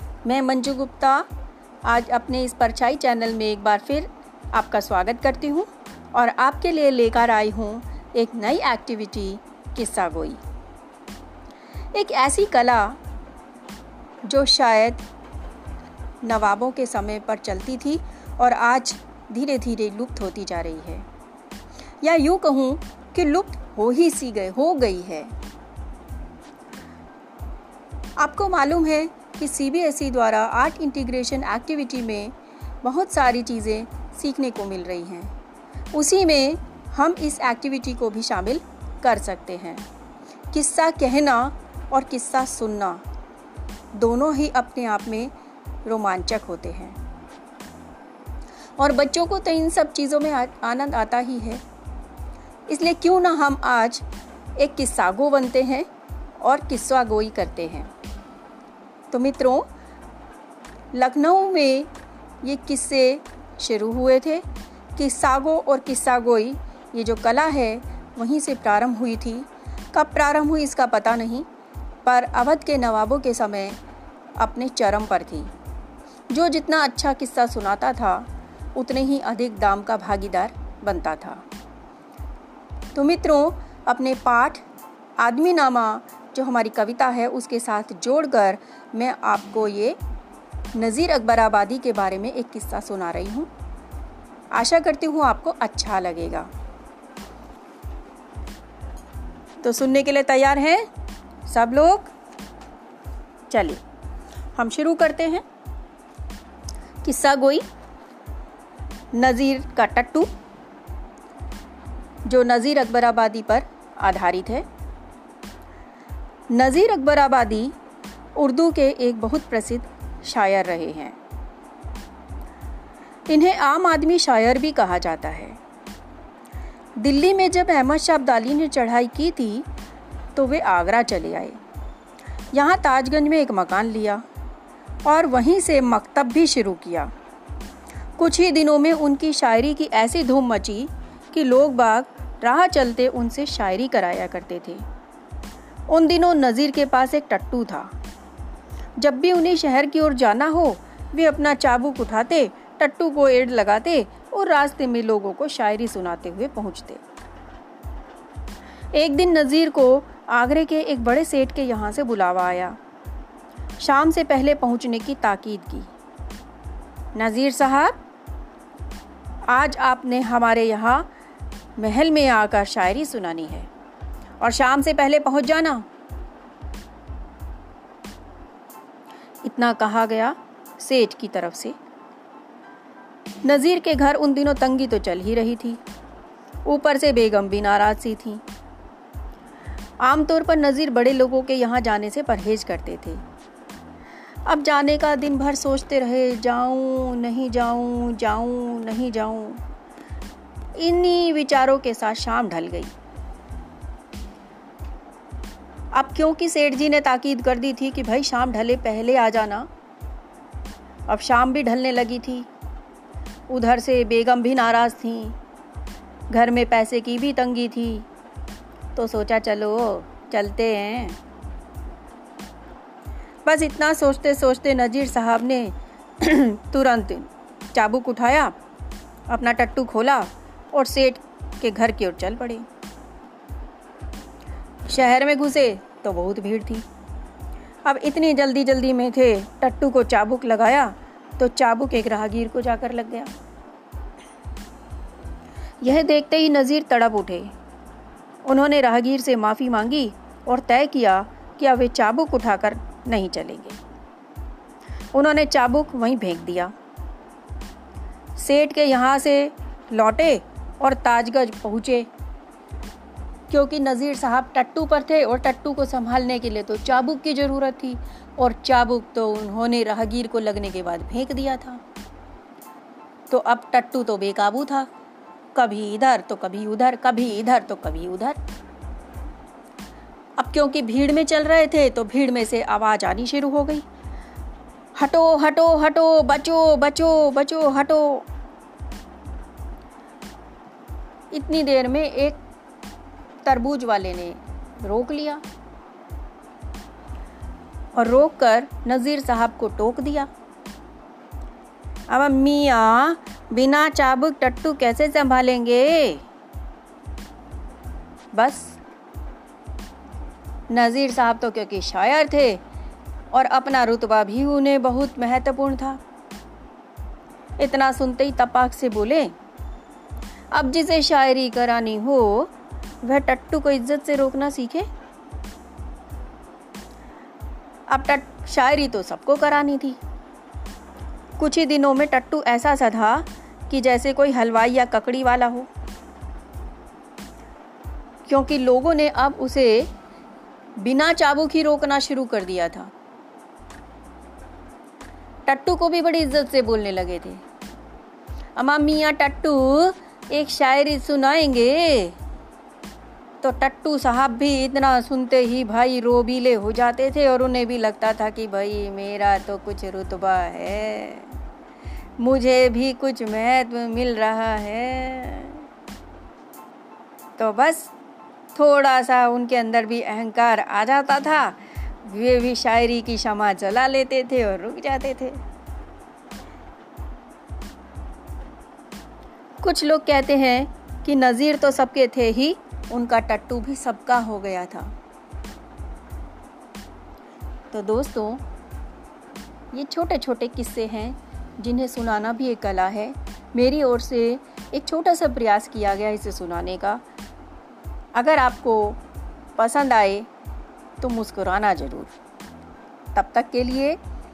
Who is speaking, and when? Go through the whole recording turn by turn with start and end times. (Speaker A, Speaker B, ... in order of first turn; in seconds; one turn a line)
Speaker A: 0.2-1.3
Speaker A: 1.9-10.4
Speaker A: 11.9-13.0
Speaker A: 14.2-15.1
Speaker A: 16.2-21.1
Speaker A: 22.0-25.3
Speaker A: 28.2-35.3
Speaker A: 35.9-39.9
Speaker A: 40.5-43.0
Speaker A: 43.9-45.3
Speaker A: 45.9-47.0
Speaker A: 48.8-51.6
Speaker A: 52.7-54.0
Speaker A: 54.6-55.9
Speaker A: 56.4-57.9
Speaker A: 59.1-59.7
Speaker A: 60.9-61.9
Speaker A: 62.4-64.5
Speaker A: 65.0-71.5
Speaker A: 72.0-73.8
Speaker A: 74.4-75.5
Speaker A: 76.3-81.4
Speaker A: 82.9-84.6
Speaker A: 85.2-90.0
Speaker A: 90.8-93.5
Speaker A: 94.5-96.5
Speaker A: 99.6-100.9
Speaker A: 101.5-102.1
Speaker A: 103.5-103.8
Speaker A: 104.6-105.4
Speaker A: 107.0-107.6
Speaker A: 109.1-110.3
Speaker A: 112.3-114.7
Speaker A: 116.5-117.7
Speaker A: 118.3-121.2
Speaker A: 123.3-125.6
Speaker A: 127.0-129.7
Speaker A: 130.3-131.6
Speaker A: 132.5-134.2
Speaker A: 135.1-137.1
Speaker A: 138.2-144.8
Speaker A: 145.9-147.9
Speaker A: 149.0-157.0
Speaker A: 158.9-162.8
Speaker A: 163.8-165.9
Speaker A: 167.2-168.0
Speaker A: 169.5-171.1
Speaker A: 171.8-173.7
Speaker A: 174.4-175.8
Speaker A: 179.4-181.8
Speaker A: 183.4-185.8
Speaker A: 186.7-188.4
Speaker A: 190.0-193.2
Speaker A: 194.5-199.6
Speaker A: 200.8-202.9
Speaker A: 205.9-209.7
Speaker A: 211.1-212.5
Speaker A: 213.5-215.3
Speaker A: 216.3-218.1
Speaker A: 218.9-221.2
Speaker A: 223.4-228.6
Speaker A: 229.3-232.7
Speaker A: 234.9-236.8
Speaker A: 237.8-243.3
Speaker A: 245.8-247.5
Speaker A: 248.4-253.8
Speaker A: 255.1-256.7
Speaker A: 258.4-262.1
Speaker A: 263.5-271.8
Speaker A: 273.3-274.9
Speaker A: 275.5-278.4
Speaker A: 280.4-283.9
Speaker A: 285.0-288.3
Speaker A: 291.3-292.4
Speaker A: 293.4-295.4
Speaker A: 297.9-300.3
Speaker A: 302.1-306.2
Speaker A: 308.3-308.8
Speaker A: 310.7-312.6
Speaker A: 313.3-316.0
Speaker A: 317.6-319.3
Speaker A: 320.5-324.9
Speaker A: 327.9-330.0
Speaker A: 331.4-335.7
Speaker A: 338.3-339.9
Speaker A: 340.8-342.9
Speaker A: 345.5-347.4
Speaker A: 348.6-352.2
Speaker A: 353.4-361.4
Speaker A: 362.2-365.7
Speaker A: 367.4-367.9
Speaker A: 368.6-375.4
Speaker A: 379.6-384.9
Speaker A: 387.7-388.4
Speaker A: 389.7-397.0
Speaker A: 398.1-399.0
Speaker A: 399.6-400.3
Speaker A: 401.0-402.1
Speaker A: 403.1-404.0